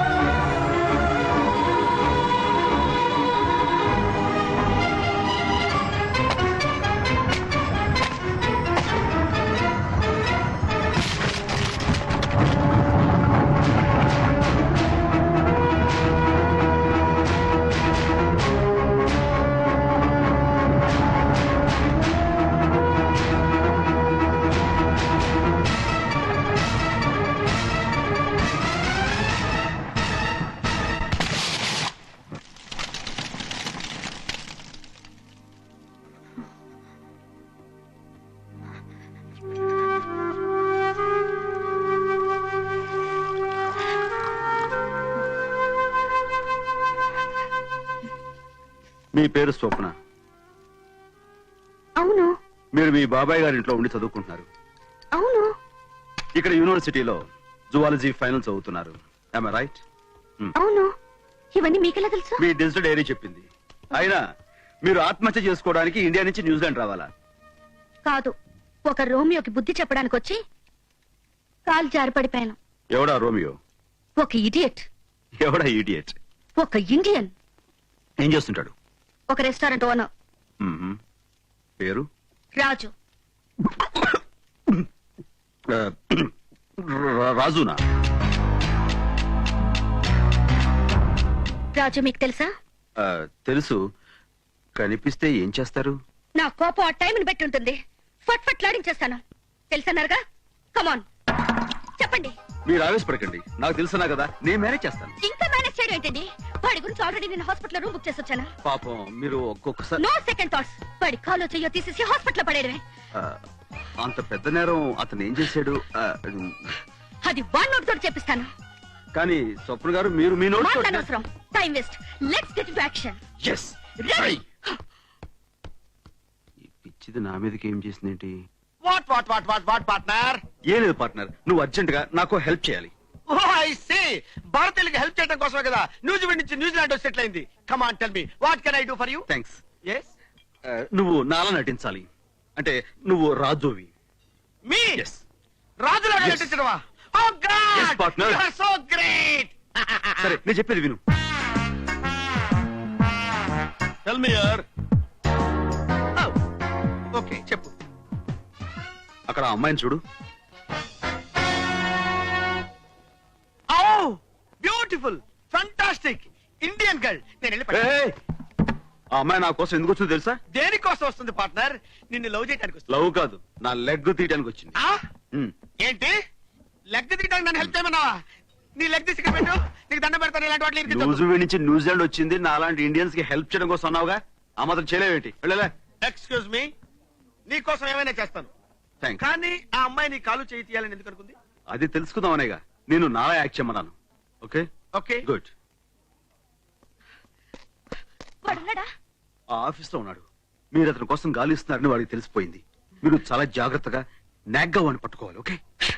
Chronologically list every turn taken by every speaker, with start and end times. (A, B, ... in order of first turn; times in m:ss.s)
0:49.1-0:49.9 A
0:52.0-0:52.3 B
0:52.8-0:54.4 A
0:55.1-0:55.5 B
0:56.4-0:57.2 A
0:57.7-0:59.8 A
1:00.5-1:00.9 B
1:01.5-1:02.4 B
1:02.4-1:04.2 A
1:04.8-1:07.1 A
1:08.0-1:08.3 B
1:08.9-1:10.4 B
1:11.6-1:12.6 B
1:12.9-1:13.6 A
1:14.2-1:14.9 B
1:15.4-1:16.2 A
1:16.6-1:17.3 B
1:18.2-1:18.7 A
1:19.3-1:20.1 B
1:20.6-1:21.0 A
1:21.8-1:22.0 A
1:22.5-1:22.9 B
1:23.6-1:24.8 A
1:25.7-1:27.8 A
1:31.7-1:32.5 B
1:33.0-1:33.8 A
1:34.8-1:36.0 A
1:36.4-1:40.2 B
1:40.7-1:41.0 B
1:42.0-1:42.3 B
1:42.6-1:45.1 A
1:45.2-1:48.5 B
1:48.6-1:50.0 A
1:50.0-1:52.8 B
1:53.1-1:53.4 A
1:54.0-1:56.7 A
1:57.2-1:58.5 B
1:59.1-2:01.1 A
2:00.6-2:03.2 B
2:03.4-2:04.4 A
2:04.0-2:04.4 B
2:06.6-2:08.3 A
2:08.9-2:10.4 C
2:10.7-2:12.9 A
2:13.3-2:19.2 C
2:19.3-2:19.6 A
2:20.7-2:22.0 A
2:22.6-2:23.9 A
2:24.7-2:25.0 C
2:25.0-2:25.2 A
2:25.8-2:29.5 C
2:26.1-2:26.6 A
2:27.7-2:28.4 A
2:30.2-2:31.0 A
2:34.0-2:34.6 A
2:37.1-2:37.7 C
2:39.3-2:40.0 A
2:43.7-2:47.8 C
2:47.7-2:48.2 A
2:49.1-2:50.4 A
2:50.5-2:52.9 C
2:52.9-2:54.8 A
2:55.8-2:56.1 C
2:56.9-2:58.1 C
2:58.8-3:01.2 C
3:00.9-3:05.7 A
3:06.0-3:06.7 C
3:07.5-3:08.5 C
3:09.2-3:11.4 C
3:11.7-3:14.7 A
3:15.0-3:15.2 C
3:15.2-3:15.5 A
3:18.4-3:18.8 B
3:19.5-3:24.0 A
3:24.6-3:25.6 A